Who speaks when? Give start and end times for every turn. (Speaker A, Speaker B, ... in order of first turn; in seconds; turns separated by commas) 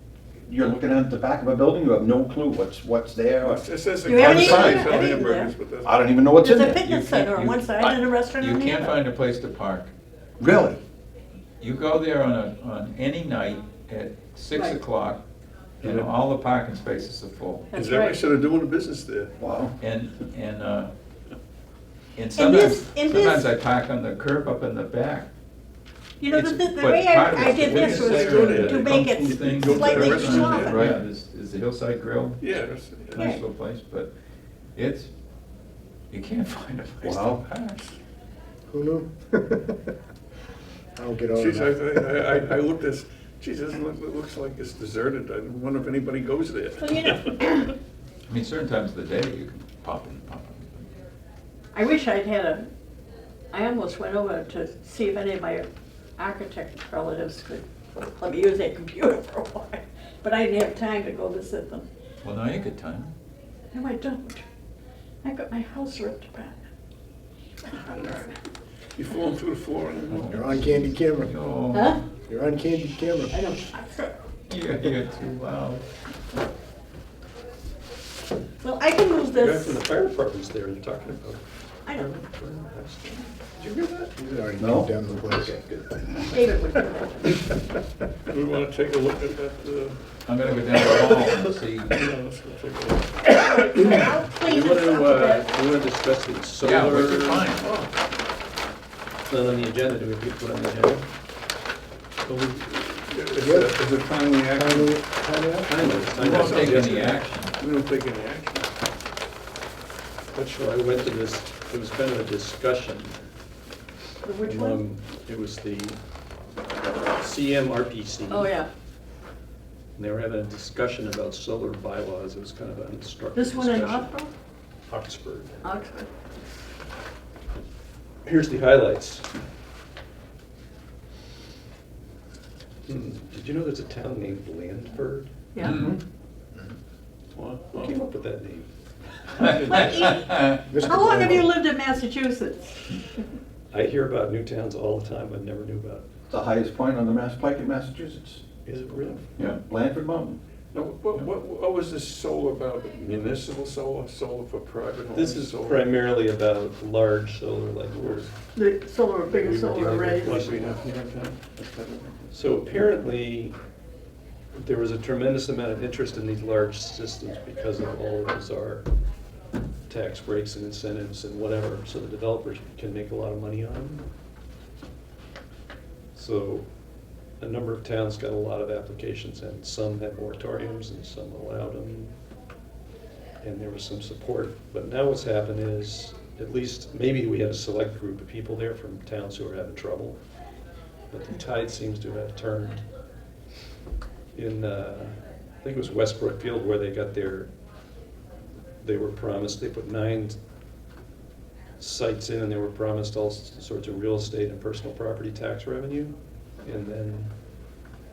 Speaker A: 0.5-5.1, Speaker B: 3.4-6.2, Speaker C: 4.0-5.5, Speaker A: 5.8-6.8, Speaker C: 6.4-8.9, Speaker D: 6.7-9.9, Speaker A: 10.4-10.8, Speaker D: 11.6-15.2, Speaker C: 14.5-14.8, Speaker B: 15.8-16.1, Speaker D: 15.8-17.7, Speaker C: 17.7-18.2, Speaker B: 17.7-19.3, Speaker A: 19.4-19.8, Speaker D: 19.8-20.9, Speaker D: 22.2-25.3, Speaker C: 22.3-23.5, Speaker C: 26.2-30.9, Speaker D: 26.3-32.4, Speaker B: 27.5-31.0, Speaker B: 32.4-33.2, Speaker D: 33.1-34.1, Speaker C: 33.2-33.4, Speaker D: 34.8-35.1, Speaker D: 36.1-37.8, Speaker A: 37.0-37.4, Speaker E: 38.7-39.8, Speaker E: 41.0-42.6, Speaker B: 41.3-47.7, Speaker C: 46.8-47.7, Speaker D: 48.3-50.9, Speaker C: 51.7-52.7, Speaker C: 53.5-57.6, Speaker C: 58.2-61.9, Speaker D: 62.2-63.1, Speaker C: 63.7-64.5, Speaker C: 65.2-66.6, Speaker C: 67.6-68.3, Speaker B: 69.0-70.4, Speaker D: 70.1-72.1, Speaker E: 70.3-71.4, Speaker C: 71.7-72.0, Speaker E: 72.2-73.4, Speaker C: 73.3-74.2, Speaker D: 74.5-75.8, Speaker C: 78.6-79.8, Speaker F: 79.3-84.1, Speaker E: 84.2-85.6, Speaker A: 84.6-85.5, Speaker F: 85.4-85.9, Speaker C: 86.3-87.4, Speaker B: 88.3-94.1, Speaker D: 90.3-92.0, Speaker C: 93.3-95.5, Speaker F: 94.4-97.5, Speaker D: 96.6-97.7, Speaker B: 97.6-97.9, Speaker F: 99.3-101.1, Speaker B: 102.2-104.9, Speaker E: 103.4-103.9, Speaker E: 104.5-106.0, Speaker F: 105.6-107.2, Speaker B: 105.7-108.7, Speaker D: 106.2-107.6, Speaker F: 110.3-113.2, Speaker C: 114.2-114.8, Speaker F: 114.4-116.0, Speaker F: 117.2-118.5, Speaker C: 118.3-118.7, Speaker F: 120.0-124.1, Speaker C: 123.3-124.3, Speaker F: 124.9-125.6, Speaker C: 125.6-126.1, Speaker F: 128.2-129.3, Speaker F: 132.9-135.3, Speaker D: 135.6-135.9, Speaker A: 135.6-136.0, Speaker B: 137.4-137.9, Speaker F: 137.6-138.7, Speaker D: 139.4-140.6, Speaker C: 139.6-143.0, Speaker E: 140.7-141.6, Speaker F: 143.7-146.1, Speaker A: 146.3-148.4, Speaker F: 148.7-149.2, Speaker A: 149.4-150.4, Speaker B: 150.7-155.9, Speaker F: 155.1-158.3, Speaker B: 158.0-158.3, Speaker C: 158.5-160.4, Speaker F: 159.4-160.7, Speaker B: 159.9-162.9, Speaker F: 162.3-163.6, Speaker F: 164.5-168.8, Speaker F: 169.9-174.0, Speaker F: 176.1-176.7, Speaker F: 177.4-182.1, Speaker F: 183.4-190.2, Speaker F: 191.1-192.8, Speaker F: 194.3-197.5, Speaker F: 198.8-200.4, Speaker F: 201.8-207.3